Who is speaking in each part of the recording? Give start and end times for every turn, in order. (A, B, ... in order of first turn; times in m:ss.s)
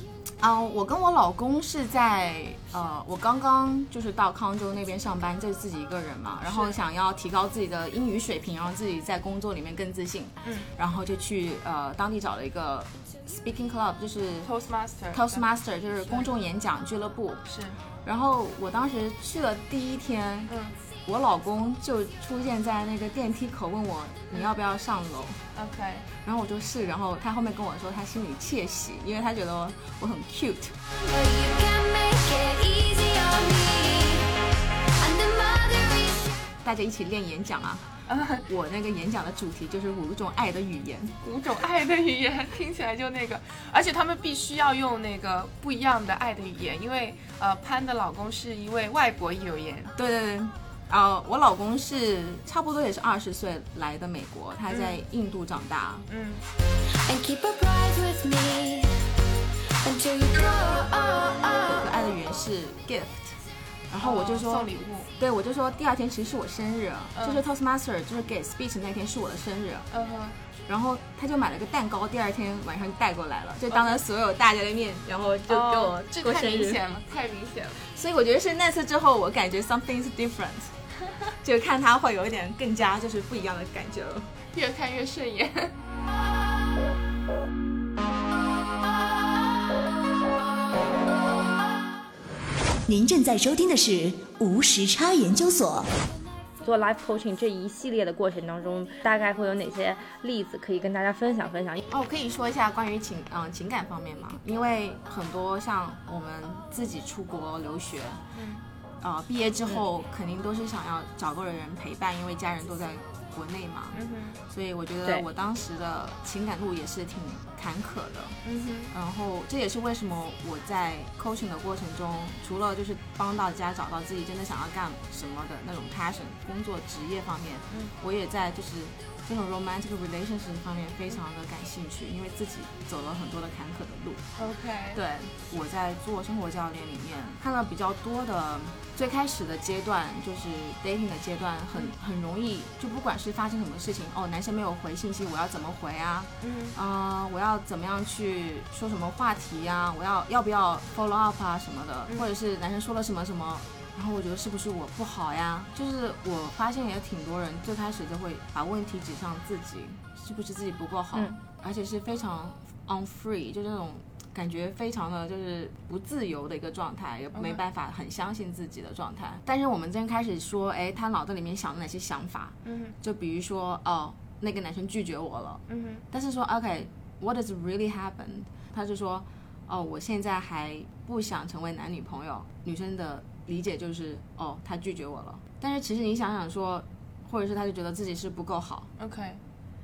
0:00.4-0:14.5 A
0:06.4-0:06.8 B
0:10.4-0:10.7 B
0:14.4-0:15.4 B
0:15.1-0:17.4 A
0:17.5-0:17.8 B
0:18.0-0:20.5 A
0:20.5-0:20.8 B
0:21.0-0:25.4 A
0:25.6-0:26.1 B
0:26.2-0:30.8 A
0:31.0-0:34.4 C
0:35.0-0:36.4 C
0:36.6-0:37.9 A
0:38.1-0:38.5 B
0:38.5-0:41.2 A
0:41.2-0:49.9 B
0:49.9-0:56.1 A
0:54.7-0:55.0 B
0:56.1-0:56.4 B
0:56.9-0:59.0 C
0:59.8-1:02.0 C
1:01.7-1:03.4 A
1:03.9-1:09.9 A
1:04.0-1:05.1 B
1:07.2-1:07.4 B
1:09.9-1:10.4 B
1:10.7-1:16.8 A
1:13.7-1:14.0 B
1:15.5-1:17.9 B
1:17.8-1:20.7 A
1:21.4-1:24.3 A
1:24.5-1:25.7 B
1:32.9-1:35.9 D
1:36.6-1:41.8 E
1:41.9-1:48.2 A
1:48.3-1:48.6 B
1:49.0-1:58.4 A
1:53.9-1:54.4 B
1:58.4-1:58.9 B
1:58.9-2:14.2 A
2:14.4-2:15.0 B
2:14.9-3:08.9 A
2:26.4-2:26.8 B
2:47.3-2:47.6 B
2:52.6-2:53.0 B
2:55.7-2:56.0 B
3:09.0-3:09.4 B